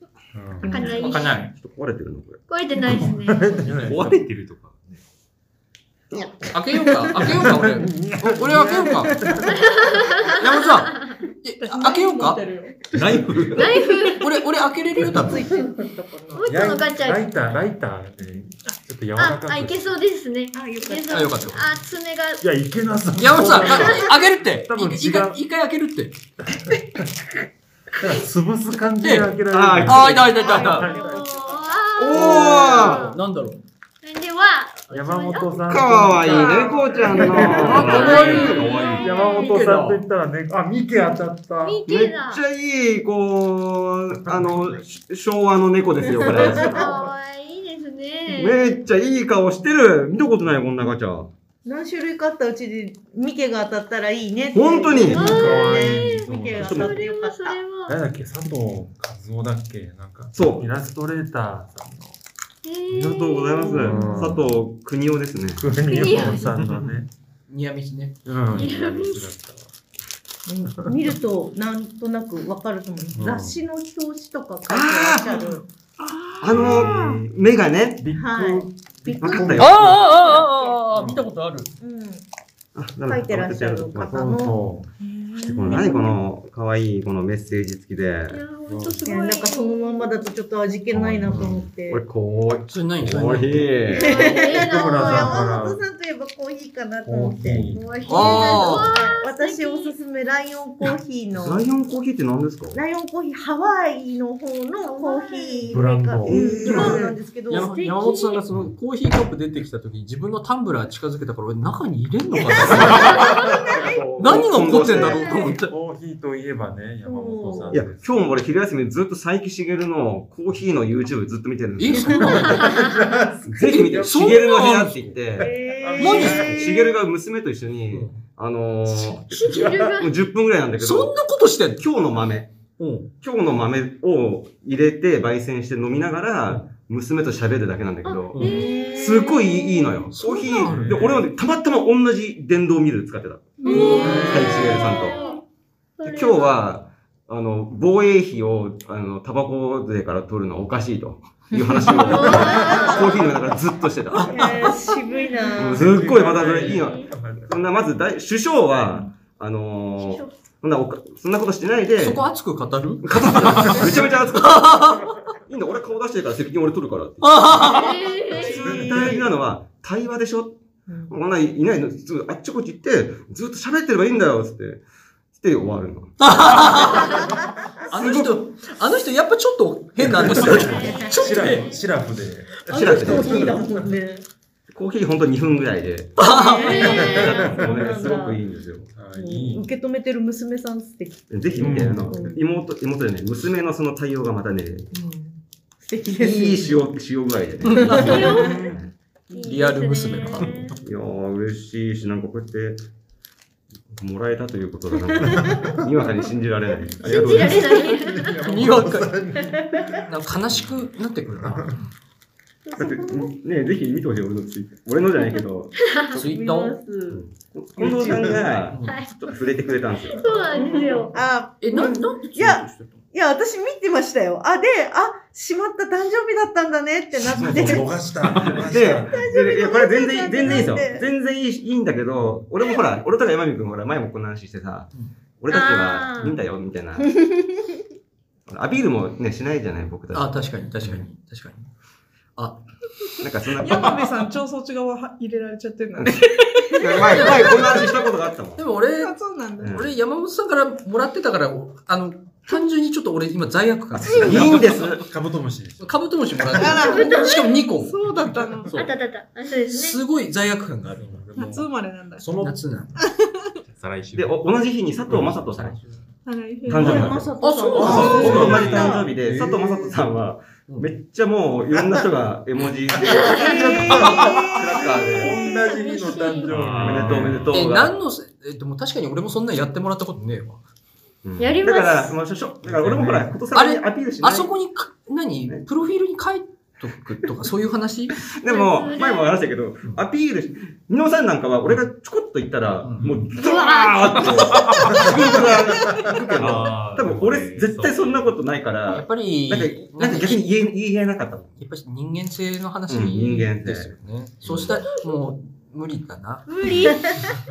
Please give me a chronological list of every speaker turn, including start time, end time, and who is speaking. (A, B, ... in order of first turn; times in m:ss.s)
0:00.3-0:00.7 A
0:00.6-0:01.1 B
0:00.7-0:01.4 C
0:00.9-0:01.5 D
0:01.5-0:02.4 E
0:02.5-0:03.5 C
0:02.8-0:04.2 A
0:03.7-0:05.0 F
0:06.5-0:09.2 D
0:07.2-0:09.6 A
0:09.4-0:10.3 C
0:10.4-0:12.4 D
0:11.6-0:12.9 G
0:12.9-0:13.7 F
0:13.6-0:14.3 C
0:14.2-0:15.4 D
0:15.0-0:16.5 B
0:16.3-0:17.3 C
0:16.4-0:20.0 A
0:19.2-0:22.5 C
0:20.5-0:21.6 B
0:21.1-0:21.7 D
0:22.4-0:25.4 A
0:23.2-0:26.2 D
0:23.6-0:24.0 C
0:26.7-0:27.2 A
0:28.0-0:31.2 A
0:29.0-0:29.3 D
0:29.5-0:30.4 E
0:29.8-0:30.9 D
0:30.3-0:32.6 B
0:30.8-0:33.2 C
0:32.0-0:33.1 E
0:32.1-0:33.6 D
0:34.0-0:39.6 C
0:34.9-0:36.5 A
0:35.7-0:39.1 E
0:37.2-0:41.8 A
0:37.2-0:37.7 B
0:37.4-0:40.0 D
0:37.7-0:38.6 F
0:41.6-0:42.4 C
0:41.9-0:47.0 E
0:44.3-0:44.7 A
0:46.1-0:47.0 B
0:46.5-0:48.8 C
0:48.3-0:51.3 E
0:51.6-0:57.6 B
0:54.5-0:55.4 E
0:55.1-0:56.9 A
0:55.1-0:58.0 C
0:56.6-0:57.0 E
0:57.9-1:02.2 A
1:00.3-1:00.7 E
1:02.6-1:04.1 C
1:02.9-1:05.7 E
1:03.6-1:04.4 A
1:03.8-1:04.3 B
1:05.6-1:07.1 A
1:05.9-1:06.5 C
1:07.5-1:08.2 D
1:08.3-1:09.7 A
1:08.5-1:09.4 C
1:10.5-1:15.7 B
1:10.8-1:11.2 A
1:13.2-1:13.6 A
1:14.7-1:15.6 E
1:16.0-1:17.2 G
1:16.4-1:18.7 E
1:16.5-1:17.1 A
1:18.1-1:20.8 B
1:19.0-1:20.1 A
1:19.2-1:20.0 E
1:19.6-1:21.7 D
1:20.9-1:21.2 A
1:21.8-1:22.2 B
1:22.8-1:24.3 E
1:23.0-1:26.2 B
1:24.1-1:24.9 A
1:25.4-1:28.4 E
1:28.3-1:30.3 C
1:28.7-1:29.1 A
1:29.0-1:32.0 B
1:30.9-1:31.6 A
1:31.3-1:31.6 D
1:31.9-1:34.2 E
1:32.6-1:33.8 D
1:33.9-1:35.4 C
1:33.9-1:41.7 B
1:34.5-1:35.8 A
1:37.1-1:37.9 A
1:37.7-1:40.0 C
1:38.1-1:38.9 D
1:41.3-1:42.8 E
1:42.7-1:48.4 B
1:44.8-1:45.7 C
1:45.7-1:46.9 A
1:46.3-1:47.2 E
1:46.7-1:47.0 D
1:47.5-1:53.3 D
1:47.6-1:48.3 C
1:52.5-1:54.1 B
1:52.7-1:54.8 A
1:52.7-1:53.3 E
1:54.1-1:55.4 E
1:54.2-1:55.7 D
1:55.7-1:58.3 A
1:57.0-1:57.8 B
1:57.7-2:02.7 E
2:01.8-2:02.9 D
2:02.0-2:03.0 B
2:02.4-2:06.8 A
2:03.4-2:05.5 E
2:03.6-2:05.1 D
2:05.4-2:07.0 B
2:06.0-2:06.7 D
2:06.2-2:11.2 E
2:07.9-2:08.2 D
2:08.9-2:09.6 D
2:09.3-2:10.2 C
2:09.4-2:10.0 A
2:10.8-2:11.8 D
2:11.8-2:12.5 E
2:12.8-2:13.1 D
2:13.2-2:25.2 E
2:18.0-2:19.9 C
2:18.3-2:18.7 D
2:18.4-2:19.6 B
2:20.1-2:21.2 D
2:20.6-2:21.2 A
2:23.6-2:25.4 C
2:23.6-2:24.0 G
2:23.7-2:25.3 B
2:23.8-2:24.8 D
2:26.0-2:26.6 C
2:26.0-2:34.3 E
2:31.5-2:33.3 B
2:31.9-2:33.2 C
2:34.1-2:34.7 D
2:34.2-2:36.0 B
2:34.8-2:35.6 C
2:35.6-2:42.2 E
2:35.6-2:38.0 A
2:36.6-2:37.1 C
2:40.0-2:40.3 C
2:42.0-2:45.0 D
2:43.0-2:54.8 E
2:47.2-2:48.0 D
2:47.6-2:48.7 C
2:48.2-2:49.3 B
2:50.9-2:51.1 B
2:55.4-2:57.3 E
2:56.2-2:57.2 D
2:57.9-3:01.7 D
2:57.9-2:58.4 E
3:00.1-3:03.5 A
3:00.3-3:00.8 E
3:00.5-3:01.9 C
3:00.7-3:01.2 B
3:02.7-3:03.7 E
3:02.7-3:04.3 B
3:04.7-3:09.0 E
3:06.2-3:07.0 D
3:06.3-3:07.6 C
3:06.5-3:08.4 B
3:06.8-3:07.9 A
3:09.0-3:09.7 A
3:09.0-3:12.4 B
3:11.3-3:14.9 E
3:11.6-3:12.2 A
3:14.9-3:16.9 B
3:16.1-3:18.9 E
3:17.6-3:18.4 D
3:17.7-3:18.7 B
3:17.9-3:18.8 C
3:19.3-3:20.8 C
3:19.4-3:20.7 D
3:20.4-3:20.7 A
3:20.8-3:22.9 E
3:23.9-3:27.8 E
3:25.3-3:25.8 B
3:27.0-3:28.4 C
3:27.5-3:30.6 A
3:28.4-3:29.2 D
3:29.5-3:29.9 B
3:30.0-3:31.7 D
3:31.4-3:31.7 A
3:32.6-3:33.3 C
3:32.8-3:36.2 E
3:35.8-3:36.2 C
3:36.1-3:38.6 B
3:36.2-3:36.8 D
3:37.1-3:41.0 E
3:38.1-3:38.4 A
3:38.7-3:39.0 D
3:38.9-3:39.1 C
3:40.1-3:41.2 C
3:40.5-3:51.1 B
3:41.6-3:43.0 D
3:47.2-3:49.3 A
3:47.3-3:57.2 E
3:55.5-3:56.4 C
3:57.0-3:57.4 B
3:58.5-4:01.1 E
4:00.1-4:01.7 D
4:02.4-4:02.6 D
4:03.2-4:04.2 E
4:03.6-4:07.8 G
4:06.7-4:08.6 E
4:07.0-4:07.9 D
4:08.6-4:14.8 D
4:09.0-4:09.8 G
4:09.6-4:09.9 E
4:14.2-4:15.1 E
4:14.3-4:16.8 A
4:15.8-4:18.0 D
4:16.5-4:18.7 G
4:16.8-4:17.5 C
4:18.6-4:19.0 D
4:18.7-4:20.0 C
4:19.7-4:21.3 D
4:21.0-4:22.6 A
4:21.4-4:22.3 G
4:22.4-4:23.0 D
4:23.0-4:23.5 G
4:23.7-4:24.5 F
4:24.2-4:25.8 E
4:25.1-4:25.9 F
4:26.2-4:27.0 G
4:26.7-4:35.4 E
4:26.8-4:27.2 A
4:26.8-4:29.1 B
4:27.4-4:28.7 D
4:27.8-4:30.0 A
4:33.0-4:37.5 A
4:33.1-4:33.8 C
4:33.2-4:35.7 B
4:34.8-4:36.5 C
4:36.4-4:37.6 F
4:36.8-4:38.0 E
4:37.5-4:40.6 D
4:41.2-4:44.5 E
4:41.4-4:42.2 C
4:42.9-4:48.2 D
4:48.2-5:01.6 E
4:48.5-4:49.4 C
4:52.8-4:53.2 D
4:53.4-4:54.7 C
4:54.3-4:55.1 F
4:56.4-4:58.4 F
4:58.9-5:00.4 D
5:01.6-5:06.5 D
5:02.9-5:04.8 E
5:06.5-5:07.1 C
5:06.8-5:07.2 B